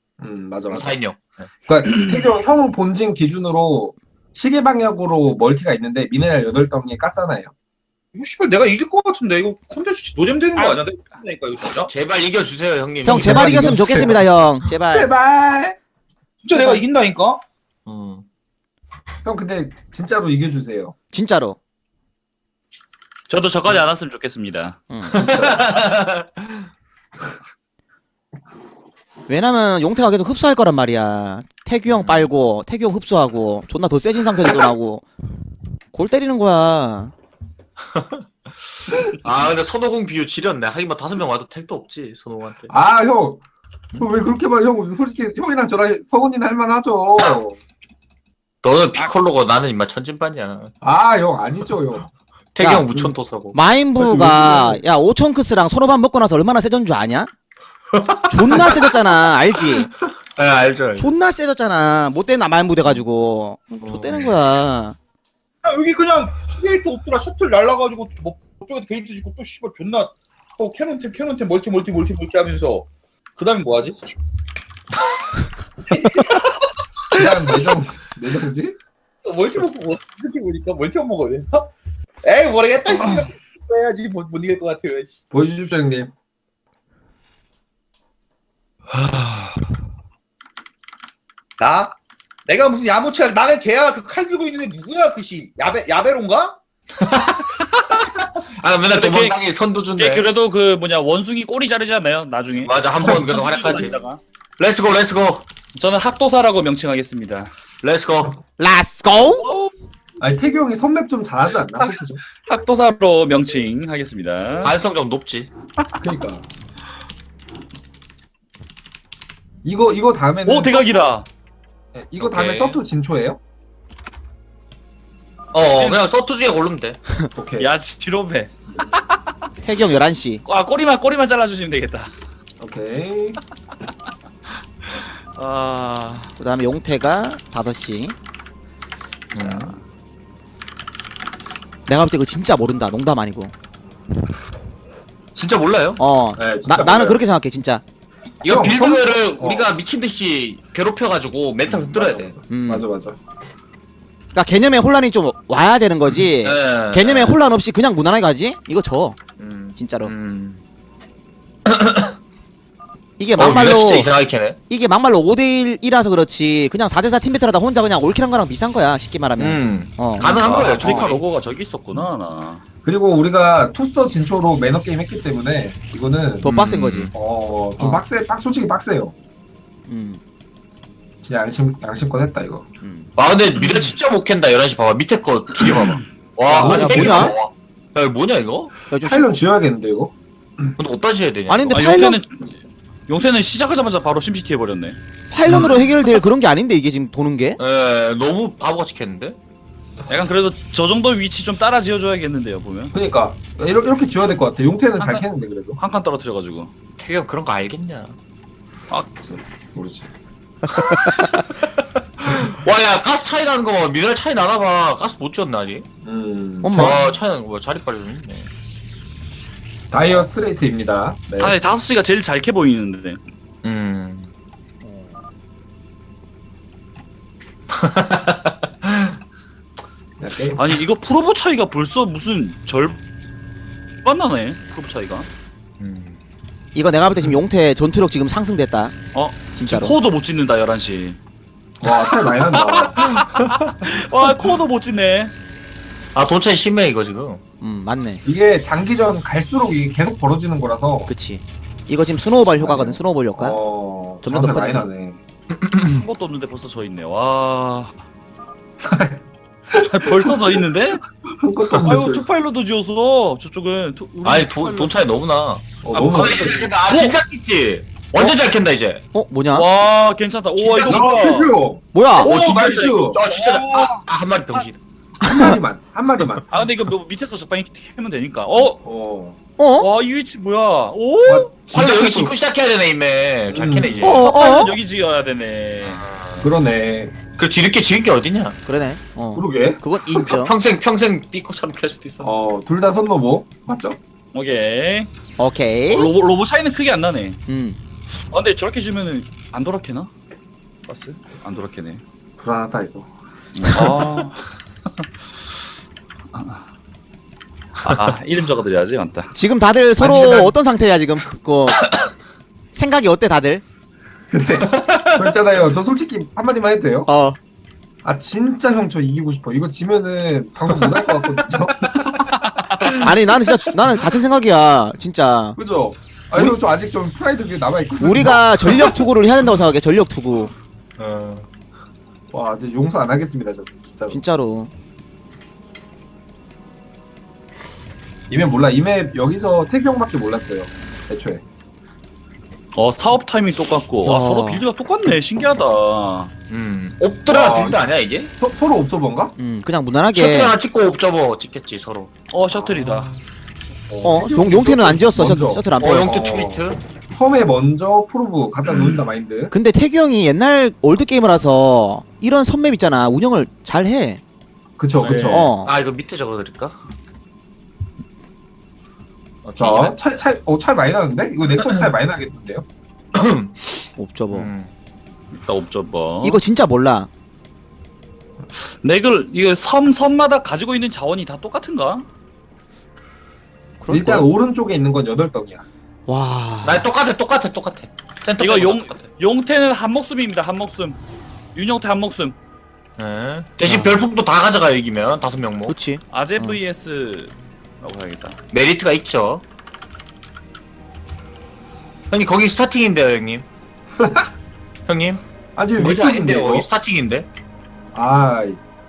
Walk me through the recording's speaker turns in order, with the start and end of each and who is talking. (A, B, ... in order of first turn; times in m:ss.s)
0:00.2-0:00.9 A
0:00.7-0:01.3 B
0:01.6-0:07.5 A
0:08.1-0:11.9 C
0:11.9-0:13.7 B
0:13.0-0:15.1 D
0:13.0-0:14.2 A
0:14.9-0:15.8 A
0:16.4-0:17.4 C
0:16.5-0:16.8 A
0:17.8-0:18.2 B
0:19.2-0:20.9 A
0:21.1-0:21.6 D
0:23.3-0:24.8 E
0:24.9-0:25.2 D
0:25.1-0:26.2 B
0:25.1-0:25.8 A
0:29.3-0:35.0 D
0:31.9-0:32.3 B
0:35.9-0:37.1 D
0:37.9-0:38.2 B
0:39.2-0:42.7 B
0:42.7-0:43.4 A
0:44.0-0:47.6 A
0:48.6-0:50.7 B
0:50.8-0:52.1 A
0:52.5-0:53.6 B
0:52.6-0:52.9 D
0:53.5-0:57.3 D
0:54.0-0:54.8 A
0:57.9-0:58.9 B
0:58.3-0:59.9 D
1:00.4-1:01.1 B
1:01.0-1:05.0 D
1:03.9-1:04.3 B
1:05.6-1:14.1 C
1:15.9-1:17.2 C
1:17.1-1:18.8 A
1:19.2-1:21.7 C
1:22.2-1:25.2 C
1:25.3-1:26.1 A
1:31.6-1:36.6 C
1:37.0-1:37.6 B
1:38.6-1:40.3 B
1:38.9-1:39.4 E
1:39.9-1:44.2 E
1:42.6-1:44.0 B
1:44.6-1:45.4 B
1:45.8-1:47.5 E
1:47.8-1:48.4 B
1:48.6-1:49.4 D
1:50.2-1:52.2 A
1:51.8-1:54.7 E
1:54.6-1:55.5 B
1:56.0-1:56.4 A
1:59.6-2:01.0 A
2:00.4-2:01.3 E
2:01.9-2:03.4 A
2:02.2-2:02.8 B
2:05.5-2:07.0 B
2:05.7-2:06.0 E
2:07.3-2:07.7 A
2:07.6-2:09.2 E
2:09.6-2:10.4 D
2:10.4-2:12.1 E
2:12.6-2:13.4 A
2:14.9-2:16.3 E
2:16.4-2:18.1 D
2:19.3-2:19.8 B
2:19.4-2:19.8 E
2:21.9-2:23.5 D
2:25.4-2:26.0 B
2:26.0-2:27.8 D
2:26.4-2:27.2 A
2:28.4-2:32.3 B
2:28.4-2:29.7 A
2:31.7-2:33.2 A
2:32.5-2:32.8 D
2:34.3-2:39.2 D
2:36.4-2:37.4 B
2:39.4-2:40.6 B
2:39.7-2:40.1 D
2:41.6-2:42.2 B
2:43.2-2:44.1 D
2:43.4-2:44.6 B
2:44.7-2:51.1 D
2:49.4-2:51.2 B
2:50.4-2:52.6 E
2:52.8-2:56.5 A
2:56.4-2:57.1 D
2:56.4-2:57.1 B
2:57.1-2:59.1 A
2:59.9-3:00.2 D
3:01.2-3:02.6 A
3:02.8-3:03.1 D
3:03.2-3:08.7 B
3:06.5-3:07.4 A
3:06.5-3:07.4 D
3:08.9-3:09.3 D
3:09.0-3:10.7 A
3:10.8-3:11.9 B
3:11.5-3:12.2 D
3:11.7-3:15.0 E
3:15.3-3:17.6 D
3:17.6-3:19.4 B
3:20.1-3:22.9 E
3:22.9-3:25.8 A
3:25.0-3:25.3 E
3:25.8-3:26.7 E
3:27.0-3:28.1 B
3:29.2-3:30.1 A
3:30.9-3:31.2 D
3:32.2-3:35.8 B
3:36.0-3:37.1 A
3:36.6-3:37.0 D
3:36.7-3:38.5 B
3:39.9-3:41.6 A
3:41.4-3:43.2 E
3:43.6-3:44.3 B
3:47.7-3:49.1 B
3:50.2-3:50.7 A
3:50.6-3:53.0 E
3:54.0-3:55.3 E
3:55.8-3:56.2 B
3:56.7-3:58.9 D
3:59.1-4:01.2 E
3:59.6-3:59.9 D
4:01.8-4:03.2 A
4:02.9-4:05.3 E
4:06.1-4:07.4 B
4:07.6-4:08.2 D
4:08.2-4:11.1 A
4:11.1-4:13.6 D
4:12.6-4:15.2 A
4:14.2-4:14.9 D
4:15.6-4:16.0 B
4:15.9-4:17.9 E
4:18.8-4:20.6 A
4:19.8-4:21.0 E
4:21.3-4:22.2 A
4:21.8-4:24.9 E
4:24.2-4:29.0 B
4:25.8-4:26.7 A
4:25.9-4:27.1 E
4:29.1-4:29.7 D
4:29.5-4:31.5 E
4:30.6-4:33.9 A
4:31.9-4:32.3 D
4:32.2-4:34.8 B
4:32.6-4:33.1 E
4:35.2-4:36.6 A
4:35.2-4:35.6 D
4:36.5-4:38.8 E
4:38.8-4:39.4 A
4:39.6-4:39.9 D
4:39.8-4:41.5 E
4:41.2-4:42.4 A
4:41.7-4:44.2 B
4:43.5-4:44.2 A
4:44.0-4:44.8 D
4:44.0-4:46.0 E
4:45.8-4:46.5 B
4:46.4-4:47.1 A
4:47.4-4:48.6 B
4:48.6-4:50.5 D
4:49.4-4:49.8 A
4:50.1-4:52.3 B
4:52.2-4:54.0 A
4:54.3-4:55.1 E
4:55.4-4:56.1 D
4:55.9-4:57.4 E
4:57.5-4:57.8 D
4:58.3-5:00.1 E
5:00.9-5:02.0 E
5:02.4-5:03.1 A
5:03.6-5:04.4 E
5:03.7-5:04.2 A
5:06.4-5:06.6 E
5:07.8-5:09.3 E
5:09.3-5:11.9 D
5:10.0-5:10.5 A
5:12.7-5:13.6 D
5:14.3-5:17.1 A
5:14.7-5:15.3 B
5:17.1-5:17.4 D
5:18.0-5:22.3 A
5:22.3-5:22.6 E
5:22.9-5:25.6 D
5:25.6-5:29.0 A
5:26.3-5:26.6 D
5:28.0-5:30.5 D
5:31.0-5:31.5 B
5:32.3-5:34.2 A
5:34.1-5:34.7 D
5:38.3-5:41.4 A
5:42.7-5:46.3 E
5:44.0-5:44.6 D
5:46.5-5:48.3 B
5:47.3-5:47.8 A
5:48.4-5:49.3 A
5:49.4-5:50.6 D
5:50.1-5:52.1 B
5:52.3-5:53.1 E
5:52.5-5:53.2 A
5:53.9-5:59.5 A
5:54.0-5:56.2 D
5:55.8-5:56.8 B
5:58.7-5:59.0 B
5:59.5-6:04.2 D
6:04.8-6:05.5 A
6:05.0-6:05.5 E
6:05.3-6:05.7 D
6:05.6-6:06.8 B
6:09.4-6:10.0 B
6:09.6-6:12.6 A
6:13.1-6:13.6 B
6:14.0-6:14.5 D
6:14.3-6:14.7 B
6:15.3-6:16.4 E
6:16.2-6:17.1 D
6:18.6-6:22.0 E
6:23.8-6:24.3 D
6:23.9-6:25.6 A
6:26.1-6:26.9 D
6:26.6-6:29.1 B
6:28.4-6:31.0 E
6:31.5-6:32.4 E
6:33.0-6:35.7 B
6:33.6-6:34.0 D
6:35.7-6:36.6 D
6:36.1-6:38.4 E
6:38.5-6:39.4 B
6:42.1-6:43.4 B
6:44.0-6:44.3 A
6:44.9-6:45.2 B
6:45.6-6:46.7 A
6:45.8-6:47.3 B
6:47.9-6:48.6 A